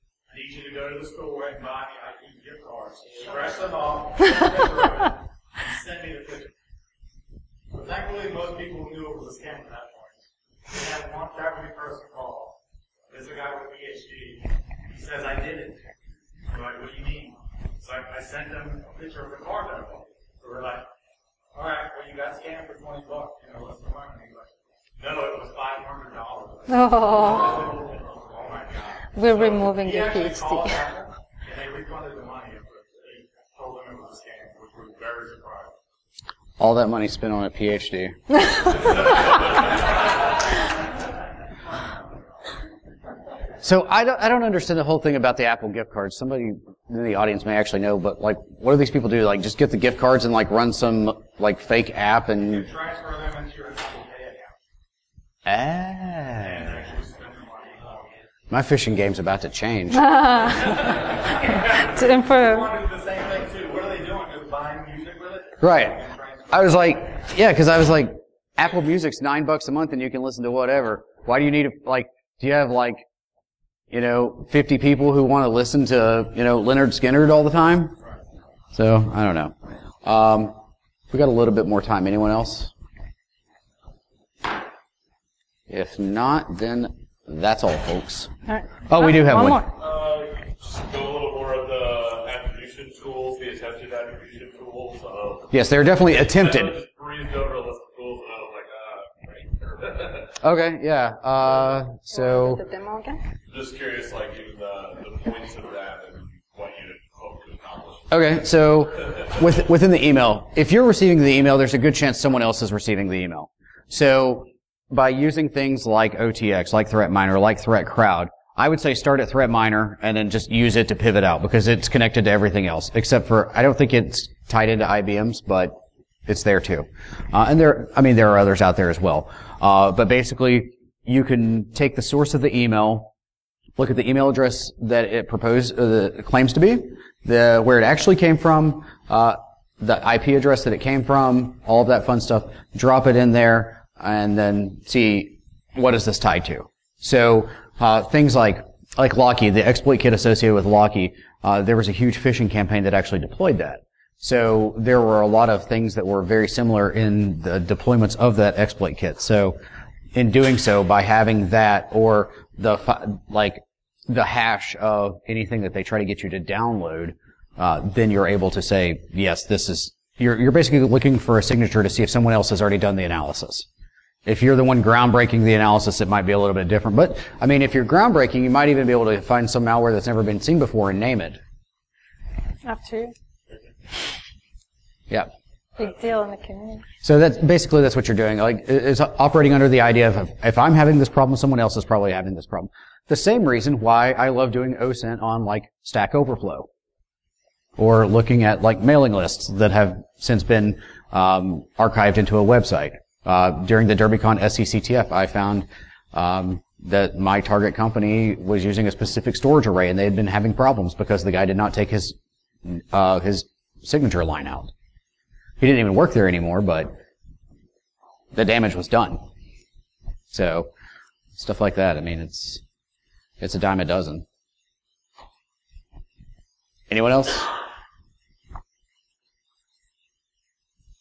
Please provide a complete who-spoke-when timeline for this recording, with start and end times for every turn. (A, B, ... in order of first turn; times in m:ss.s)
0:00.3-0:06.5 A
0:07.7-0:15.8 A
0:16.5-0:20.9 A
0:21.5-0:35.7 A
0:26.7-0:27.7 B
0:29.2-0:30.8 B
0:36.6-0:38.8 C
0:38.6-0:39.9 A
0:43.6-0:52.7 C
0:52.4-0:54.6 A
0:55.5-0:56.8 C
0:56.4-0:58.1 A
0:58.5-1:00.1 C
0:59.9-1:01.1 B
1:00.5-1:06.9 A
1:01.7-1:02.7 B
1:05.6-1:13.0 C
1:13.9-1:18.0 C
1:18.7-1:20.6 C
1:21.1-1:22.7 C
1:25.7-1:28.3 C
1:28.5-1:29.7 B
1:28.9-1:29.6 C
1:29.7-1:40.4 D
1:35.5-1:36.8 C
1:40.4-1:42.6 C
1:42.1-1:43.2 B
1:43.5-1:48.2 D
1:48.1-2:13.1 C
2:13.8-2:39.6 C
2:40.2-2:53.7 C
2:54.3-3:01.4 C
3:02.6-3:03.1 B
3:05.8-3:06.8 B
3:07.0-3:16.7 C
3:17.8-3:34.7 C
3:35.6-3:36.9 C
3:38.3-3:39.2 C
3:40.3-3:40.7 C
3:41.4-3:42.6 C
3:43.4-3:44.2 C
3:46.9-3:47.5 C